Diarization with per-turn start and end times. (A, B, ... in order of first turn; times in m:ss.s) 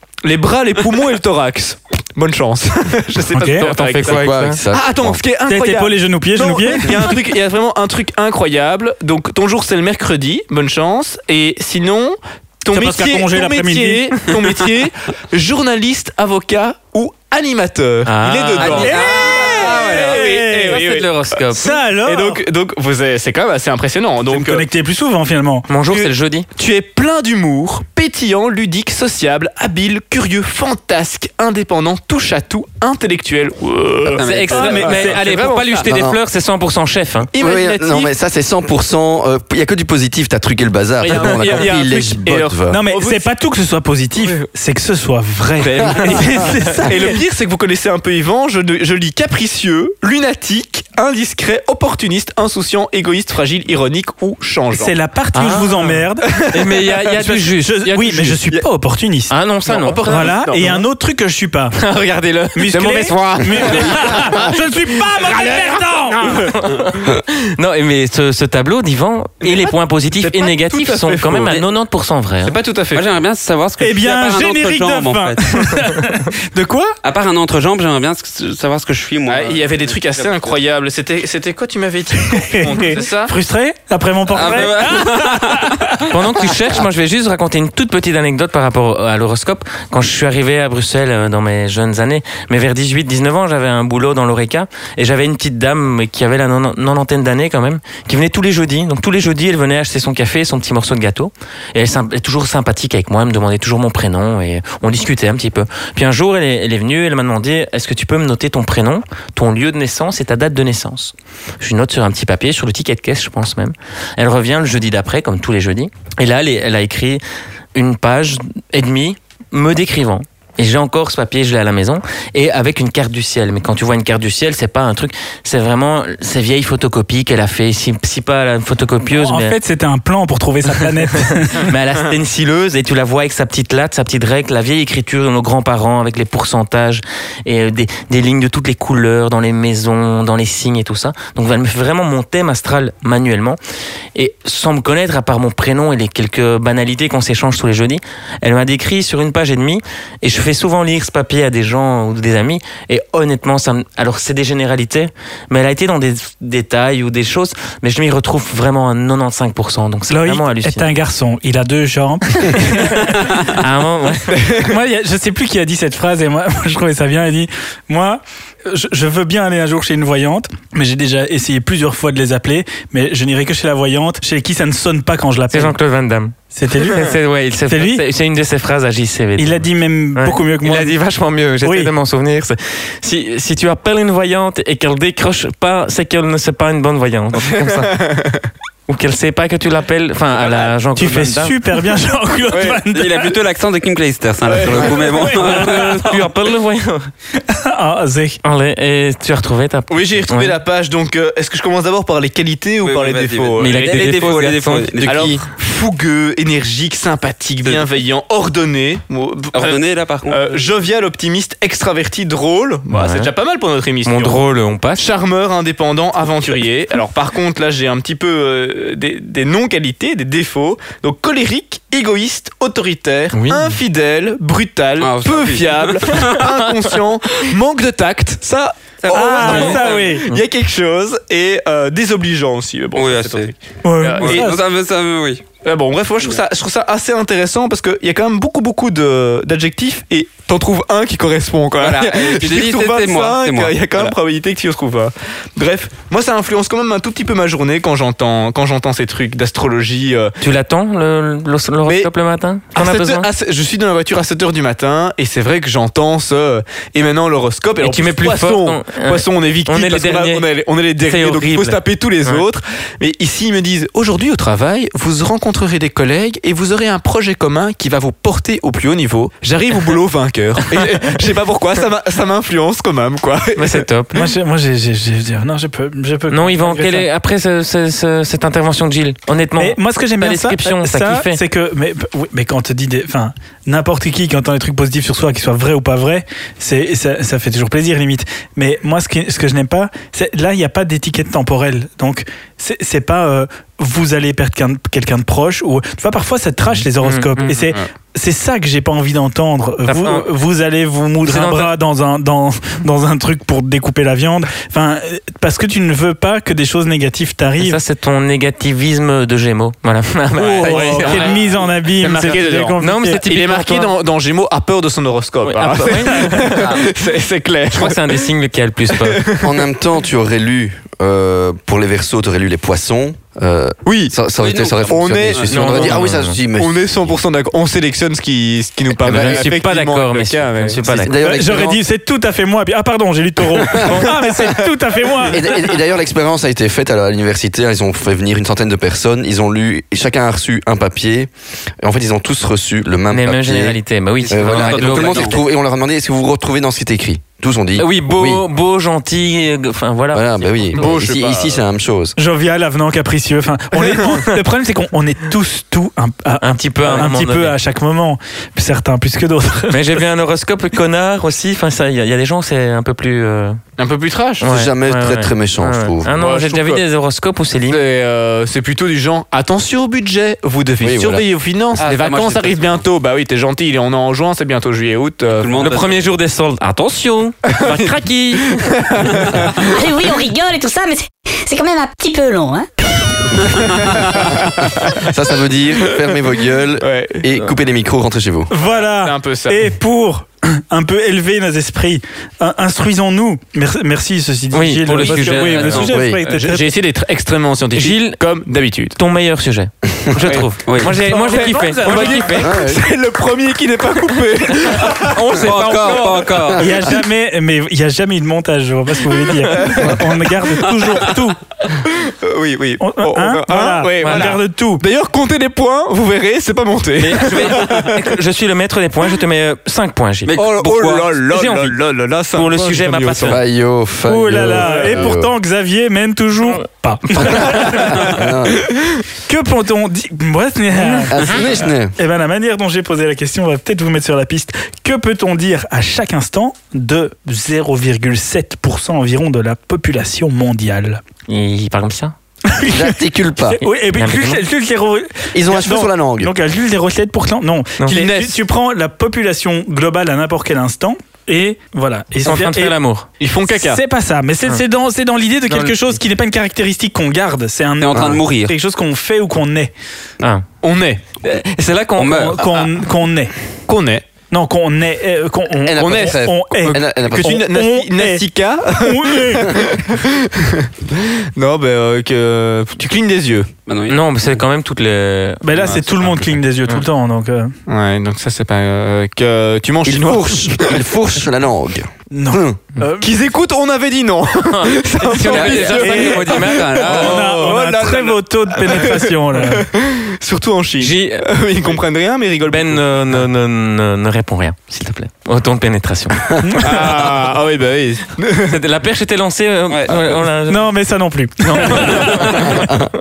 0:00.2-0:21.4 A
0:03.3-0:03.7 B
0:03.6-0:04.6 C
0:04.0-0:05.2 D
0:05.5-0:07.1 B
0:12.7-0:14.2 B
0:18.0-0:21.8 C
0:18.6-0:20.1 E
0:18.6-0:20.8 B
0:21.5-0:22.4 B
0:22.0-0:24.6 A
0:24.3-0:25.7 B
0:25.7-0:26.5 C
0:25.8-0:36.0 A
0:34.0-0:35.2 E
0:34.2-0:37.3 C
0:34.5-0:35.1 B
0:35.8-0:36.2 D
0:37.3-0:38.1 A
0:37.4-0:42.8 D
0:41.0-0:43.3 A
0:42.7-0:47.2 B
0:44.2-0:44.5 A
0:45.6-0:55.0 A
0:54.7-0:56.4 B
0:55.4-0:58.4 C
0:56.3-0:57.2 A
0:57.1-0:59.3 B
0:59.3-1:00.4 C
0:59.6-1:00.8 A
1:00.0-1:01.8 B
1:01.8-1:04.4 C
1:02.6-1:06.5 B
1:02.8-1:04.4 A
1:06.3-1:12.6 C
1:09.4-1:11.6 A
1:12.4-1:13.0 A
1:12.9-1:15.8 E
1:13.8-1:17.0 B
1:17.0-1:20.5 E
1:19.3-1:23.4 A
1:22.3-1:26.0 B
1:24.3-1:26.1 E
1:26.1-1:57.2 C
1:57.7-2:09.6 C
2:09.1-2:11.7 B
2:11.1-2:23.6 C
2:24.1-2:40.9 C
2:40.1-2:43.5 B
2:42.5-2:44.5 C
2:44.3-2:44.7 A
2:44.6-2:55.8 B
2:55.5-2:59.6 C
2:56.5-2:57.2 B
2:57.7-2:58.0 B
2:59.4-3:01.0 B
3:00.2-3:08.0 C
3:01.6-3:01.9 B
3:07.4-3:08.5 A
3:08.9-3:11.6 C
3:10.4-3:10.7 A
3:10.9-3:13.4 B
3:12.5-3:12.8 A
3:12.9-3:16.2 E
3:14.4-3:15.4 A
3:14.9-3:15.9 B
3:15.3-3:17.1 C
3:17.4-3:18.4 B
3:18.4-3:20.6 C
3:19.9-3:34.4 A
3:22.8-3:25.4 E
3:23.6-3:25.3 C
3:29.5-3:30.6 E
3:32.9-3:33.3 C
3:34.0-3:35.1 C
3:35.0-3:54.6 A
3:43.3-3:43.8 C
3:45.0-3:46.5 E
3:49.0-3:50.0 E
3:49.1-3:50.3 B
3:49.4-3:50.4 C
3:52.9-3:53.6 E
3:53.8-3:54.6 B
3:54.2-3:55.4 E
3:55.6-4:10.4 A
4:01.8-4:04.1 E
4:10.4-4:13.3 C
4:11.8-4:12.1 A
4:12.7-4:33.8 A
4:17.8-4:20.4 C
4:21.0-4:22.4 C
4:33.6-4:34.2 C
4:34.1-4:37.1 B
4:36.3-4:41.4 C
4:39.6-5:07.8 B
4:56.7-4:57.4 C
4:57.4-4:57.9 A
4:59.8-5:00.3 C
5:01.2-5:01.7 C
5:07.6-5:11.4 C
5:10.4-5:13.2 B
5:10.6-5:18.2 A
5:12.8-5:13.9 C
5:15.4-5:16.8 C
5:17.7-5:19.3 C
5:18.9-5:19.6 A
5:19.4-5:27.1 D
5:23.8-5:24.2 A
5:24.4-5:25.5 E
5:24.8-5:31.0 A
5:25.5-5:26.4 C
5:29.0-5:31.1 C
5:29.0-5:29.5 D
5:30.8-5:31.8 D
5:31.2-5:35.7 B
5:33.6-5:34.1 D
5:35.3-5:48.4 D
5:43.1-5:45.4 C
5:44.2-5:45.4 E
5:47.8-5:50.5 C
5:50.1-5:52.2 D
5:50.7-5:51.6 A
5:52.2-6:00.0 B
5:53.8-5:54.1 A
5:56.4-5:57.6 C
5:59.7-6:03.6 C
6:03.8-6:04.4 A
6:04.4-6:06.2 D
6:04.4-6:07.8 C
6:06.1-6:06.8 A
6:07.7-6:15.6 A
6:10.8-6:11.2 D
6:11.8-6:12.8 E
6:15.3-6:16.0 E
6:15.6-6:19.4 C
6:17.4-6:19.7 A
6:19.2-6:19.5 E
6:19.7-6:22.7 F
6:23.4-6:25.1 A
6:23.5-6:24.3 E
6:25.0-6:28.5 D
6:26.8-6:27.3 A
6:28.5-6:36.7 B
6:28.5-6:29.7 A
6:34.5-6:35.9 C
6:35.0-6:39.0 A
6:35.3-6:35.9 E
6:35.9-6:36.2 D
6:37.7-6:38.2 C
6:39.0-6:42.6 C
6:40.2-6:40.5 A
6:40.6-6:41.0 E
6:41.0-6:42.5 B
6:41.0-6:46.2 A
6:42.4-6:42.8 D
6:44.6-6:46.6 C
6:45.3-6:46.7 E
6:46.6-6:51.4 B
6:49.4-6:50.6 A
6:50.7-6:51.1 E
6:51.8-6:58.0 A
6:52.8-6:54.8 B
6:54.0-6:54.4 C
6:57.0-7:00.4 C
6:57.3-6:57.9 E
7:00.3-7:01.2 E
7:00.3-7:03.4 A
7:01.3-7:01.8 C
7:02.3-7:03.4 C
7:03.2-7:05.3 D
7:04.0-7:08.2 B
7:04.6-7:05.1 A
7:07.2-7:08.6 D
7:07.2-7:07.4 C
7:09.3-7:21.0 B
7:11.1-7:11.9 D
7:11.2-7:11.5 C
7:21.3-7:22.2 C
7:22.5-7:23.0 B
7:22.6-7:23.6 D
7:23.5-7:32.8 B
7:23.9-7:24.4 C
7:25.3-7:26.3 D
7:27.9-7:28.4 A
7:32.2-7:33.1 C
7:33.2-7:33.8 A
7:33.5-7:39.7 B
7:35.5-7:35.8 C
7:37.8-7:38.5 E
7:37.9-7:38.2 D
7:40.2-7:40.5 C
7:40.6-7:41.6 A
7:41.3-7:42.2 C
7:42.0-7:42.4 E
7:42.0-7:43.3 B
7:43.7-7:44.0 A
7:44.3-7:49.6 B
7:45.6-7:47.4 D
7:45.8-7:53.5 A
7:53.7-7:54.4 E
7:53.9-7:56.8 C
7:55.4-7:57.6 B
7:57.7-8:00.8 A
7:59.8-8:02.6 D
8:02.1-8:03.1 B
8:03.0-8:13.2 A
8:04.5-8:07.5 C
8:05.2-8:07.3 E
8:05.7-8:09.6 B
8:10.8-8:11.3 C
8:12.5-8:16.4 C
8:16.4-8:16.9 B
8:16.6-8:18.6 A
8:18.4-8:20.7 C
8:19.7-8:20.2 E
8:20.5-8:22.5 B
8:21.4-8:22.8 C
8:21.8-8:22.2 A
8:22.5-8:22.9 D